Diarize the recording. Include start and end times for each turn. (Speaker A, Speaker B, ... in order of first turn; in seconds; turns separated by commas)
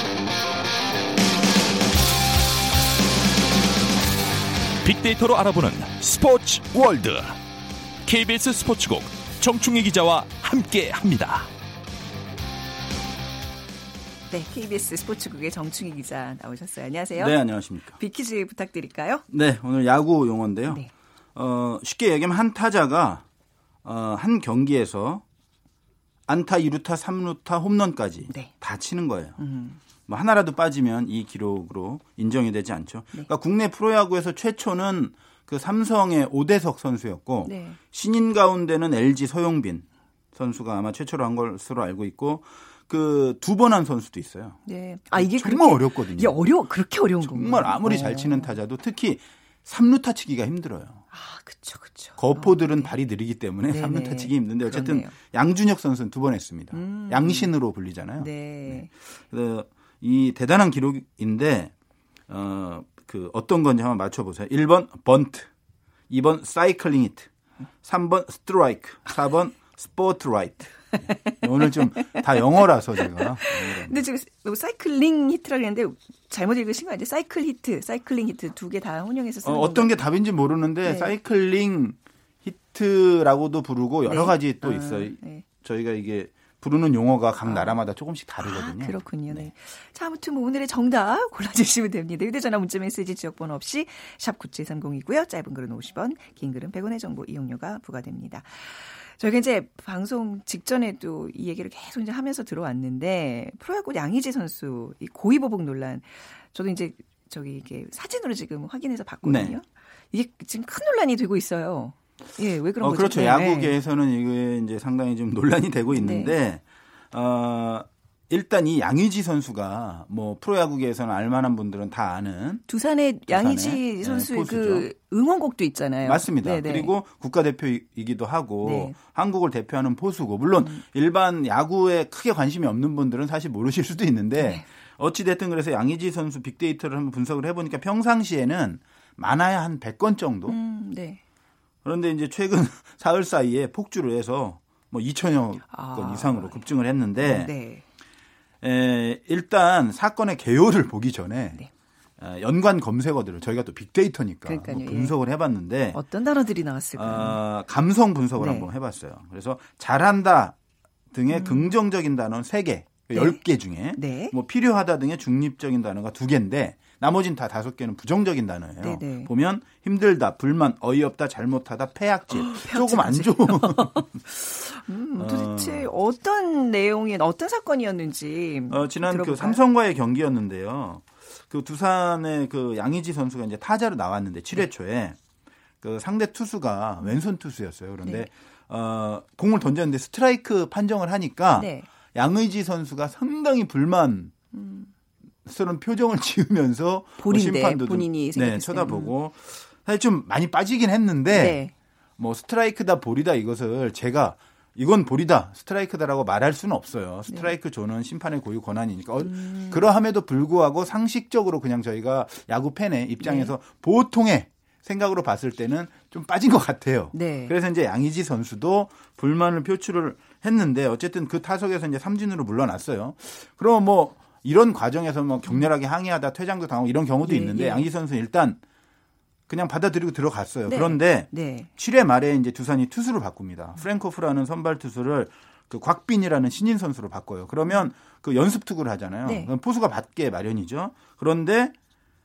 Speaker A: 4.8-7.3, Speaker A: 8.0-11.5, Speaker B: 14.3-17.4, Speaker C: 17.1-18.0, Speaker B: 17.9-19.2, Speaker C: 19.3-20.8, Speaker C: 21.3-23.2, Speaker C: 23.8-25.2, Speaker C: 26.3-29.4, Speaker B: 29.4-29.8, Speaker C: 30.1-44.6, Speaker B: 37.4-37.8, Speaker B: 44.6-48.5, Speaker C: 45.1-46.4, Speaker C: 47.2-51.0, Speaker B: 51.1-52.9, Speaker C: 52.2-61.7, Speaker B: 53.7-55.1, Speaker B: 56.7-57.5, Speaker B: 58.2-58.9, Speaker C: 62.3-65.5, Speaker C: 66.1-67.3, Speaker C: 67.8-74.0, Speaker B: 70.9-72.4, Speaker B: 73.0-79.9, Speaker C: 79.4-89.5, Speaker B: 80.8-81.1, Speaker B: 84.0-85.5, Speaker B: 87.5-87.8, Speaker B: 88.4-113.7, Speaker C: 109.2-109.5, Speaker C: 112.8-122.6, Speaker B: 115.9-116.3, Speaker B: 122.7-126.9, Speaker C: 123.3-124.9, Speaker C: 126.0-140.6, Speaker B: 128.6-129.0, Speaker B: 134.4-134.7, Speaker B: 140.5-141.2, Speaker C: 141.8-147.5, Speaker B: 145.7-146.7, Speaker B: 147.2-147.8, Speaker C: 148.6-151.6, Speaker C: 152.2-156.0, Speaker B: 154.4-155.1, Speaker B: 155.9-157.4, Speaker C: 156.9-160.6, Speaker B: 158.4-158.7, Speaker C: 161.1-174.1, Speaker B: 161.3-161.7, Speaker B: 163.1-163.4, Speaker B: 163.9-164.3, Speaker B: 168.8-169.3, Speaker B: 172.3-179.6, Speaker C: 175.2-175.9, Speaker C: 178.7-185.2, Speaker C: 185.8-194.3, Speaker B: 188.0-188.3, Speaker B: 191.6-191.9, Speaker B: 194.5-194.9, Speaker C: 195.4-201.6, Speaker B: 197.2-199.1, Speaker B: 201.3-201.7, Speaker C: 202.2-228.6, Speaker B: 207.3-207.5, Speaker B: 209.2-209.8, Speaker B: 213.2-213.5, Speaker B: 217.1-217.5, Speaker B: 227.2-227.8, Speaker C: 229.5-241.7, Speaker B: 230.7-231.7, Speaker B: 239.2-239.5